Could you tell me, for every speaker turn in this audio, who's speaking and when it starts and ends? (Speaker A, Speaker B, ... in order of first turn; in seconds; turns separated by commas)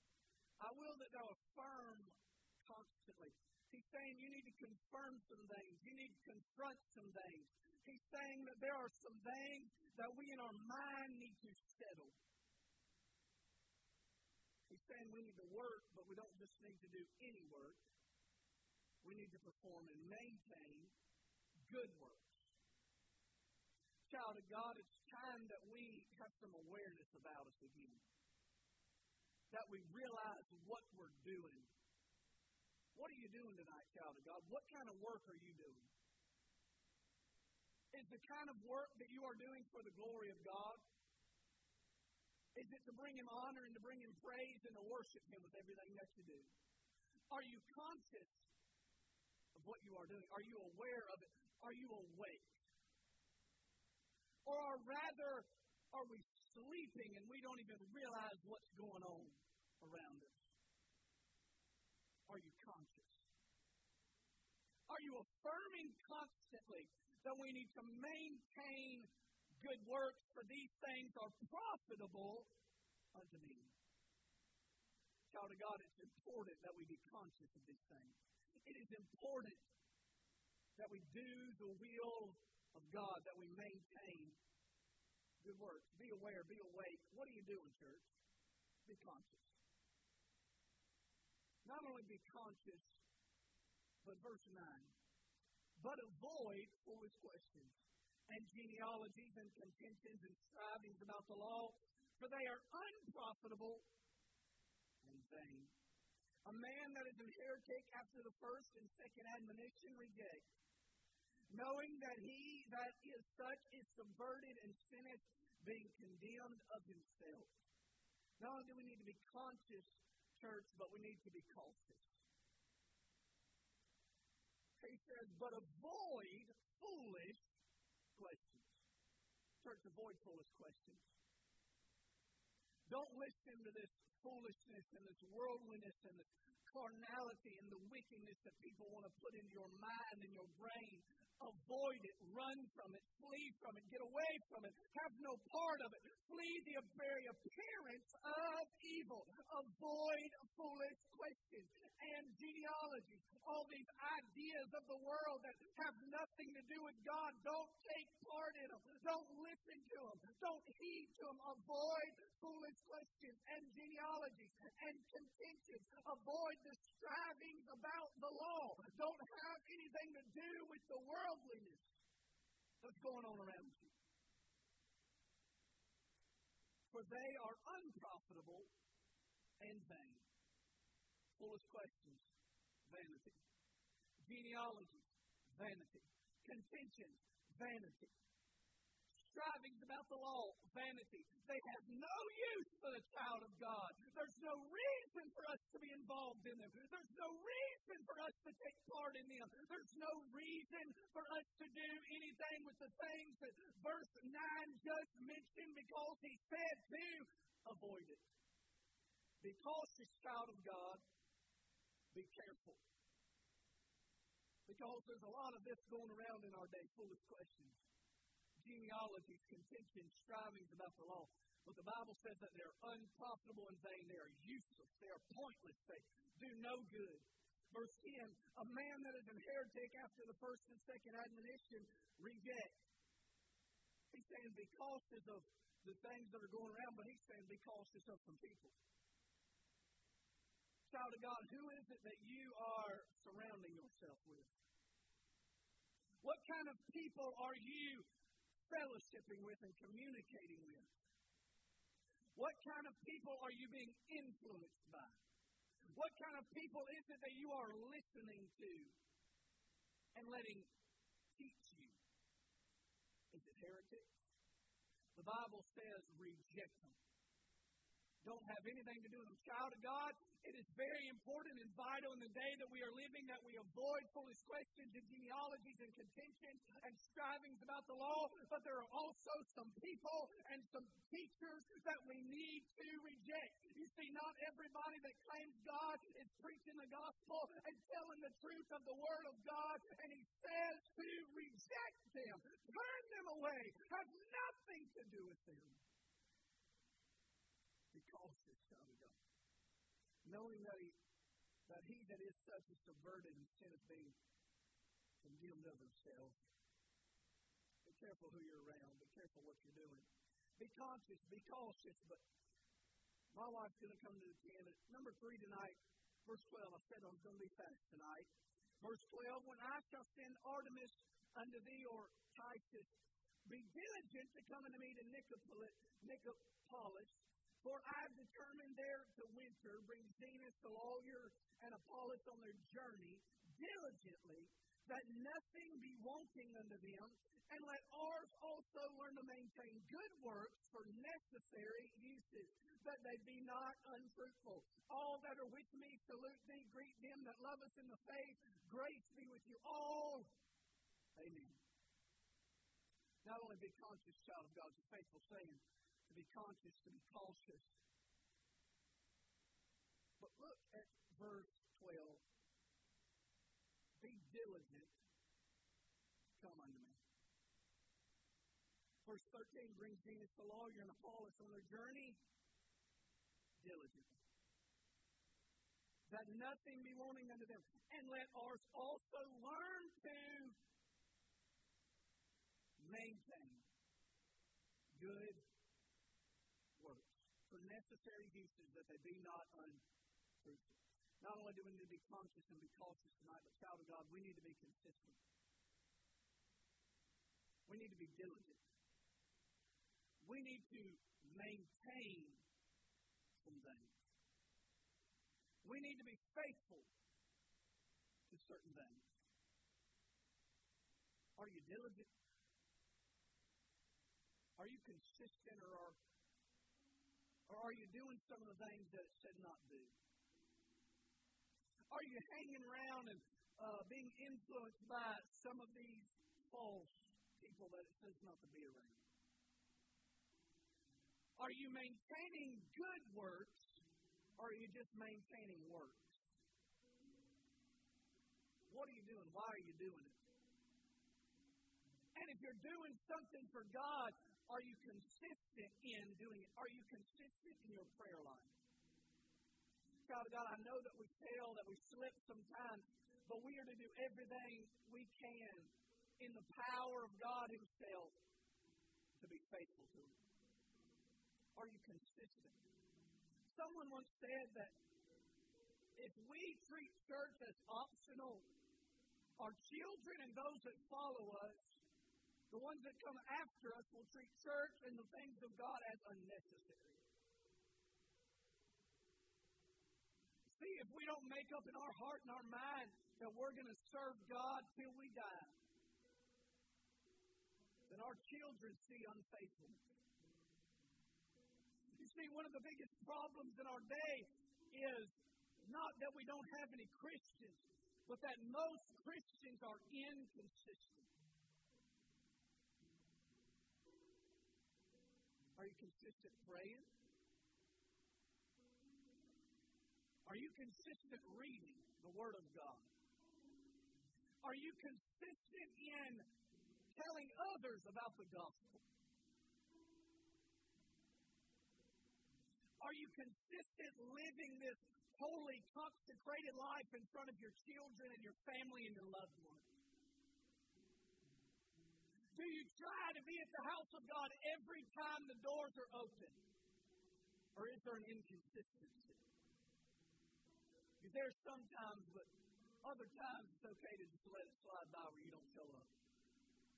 Speaker A: 0.6-12.2, Speaker A: 14.7-17.8, Speaker A: 19.0-20.9, Speaker A: 21.7-22.4, Speaker A: 24.1-28.1, Speaker A: 29.5-31.7, Speaker A: 32.9-35.9, Speaker A: 37.9-40.8, Speaker A: 42.5-46.5, Speaker A: 47.3-48.5, Speaker A: 49.5-52.5, Speaker A: 54.4-60.4, Speaker A: 62.3-63.2, Speaker A: 64.9-69.1, Speaker A: 69.6-72.5, Speaker A: 73.1-73.7, Speaker A: 75.3-79.7, Speaker A: 80.8-84.4, Speaker A: 85.4-88.1, Speaker A: 88.8-89.5, Speaker A: 91.6-93.0, Speaker A: 94.0-94.9, Speaker A: 95.8-97.8, Speaker A: 98.3-103.8, Speaker A: 105.0-105.7, Speaker A: 106.4-110.4, Speaker A: 111.5-117.5, Speaker A: 118.4-122.1, Speaker A: 124.8-127.5, Speaker A: 128.1-128.8, Speaker A: 129.6-131.0, Speaker A: 132.9-171.9, Speaker A: 172.8-173.9, Speaker A: 176.9-178.7, Speaker A: 179.6-180.2, Speaker A: 181.4-182.3, Speaker A: 182.8-183.4, Speaker A: 184.2-188.1, Speaker A: 189.2-208.3, Speaker A: 209.4-211.0, Speaker A: 212.1-212.8, Speaker A: 214.7-217.8, Speaker A: 218.6-232.7, Speaker A: 234.1-238.8, Speaker A: 240.9-244.5, Speaker A: 246.2-248.1, Speaker A: 248.7-250.9, Speaker A: 252.3-255.2, Speaker A: 255.9-258.9, Speaker A: 260.1-260.7, Speaker A: 261.3-262.0, Speaker A: 263.3-264.1, Speaker A: 265.1-267.0, Speaker A: 268.2-295.8, Speaker A: 297.9-299.2, Speaker A: 300.2-300.9, Speaker A: 301.7-304.2, Speaker A: 305.2-306.4, Speaker A: 307.8-312.2, Speaker A: 313.3-318.3, Speaker A: 318.8-322.9, Speaker A: 323.4-350.3, Speaker A: 351.1-351.6, Speaker A: 353.2-357.7, Speaker A: 360.2-362.2, Speaker A: 364.0-364.9, Speaker A: 366.4-367.0, Speaker A: 369.0-372.2, Speaker A: 373.6-374.2, Speaker A: 376.1-380.6, Speaker A: 382.8-383.7, Speaker A: 384.9-385.4, Speaker A: 386.8-389.8, Speaker A: 390.4-395.2, Speaker A: 397.7-398.6, Speaker A: 400.2-402.4, Speaker A: 403.4-404.0, Speaker A: 405.6-406.9, Speaker A: 408.3-409.1, Speaker A: 411.4-412.1, Speaker A: 414.6-416.0, Speaker A: 417.5-419.9, Speaker A: 421.9-429.0, Speaker A: 431.4-433.8, Speaker A: 434.4-436.2, Speaker A: 438.7-440.2, Speaker A: 442.1-448.6, Speaker A: 450.1-458.1, Speaker A: 459.2-460.2, Speaker A: 461.5-462.6, Speaker A: 463.5-464.7, Speaker A: 466.0-468.5, Speaker A: 469.4-471.8, Speaker A: 472.5-477.0, Speaker A: 480.5-485.6, Speaker A: 487.9-489.8, Speaker A: 491.9-501.1, Speaker A: 505.6-506.9, Speaker A: 510.2-512.9, Speaker A: 514.4-516.2, Speaker A: 516.9-518.8, Speaker A: 522.8-529.7, Speaker A: 532.3-536.5, Speaker A: 537.5-539.2, Speaker A: 541.0-545.9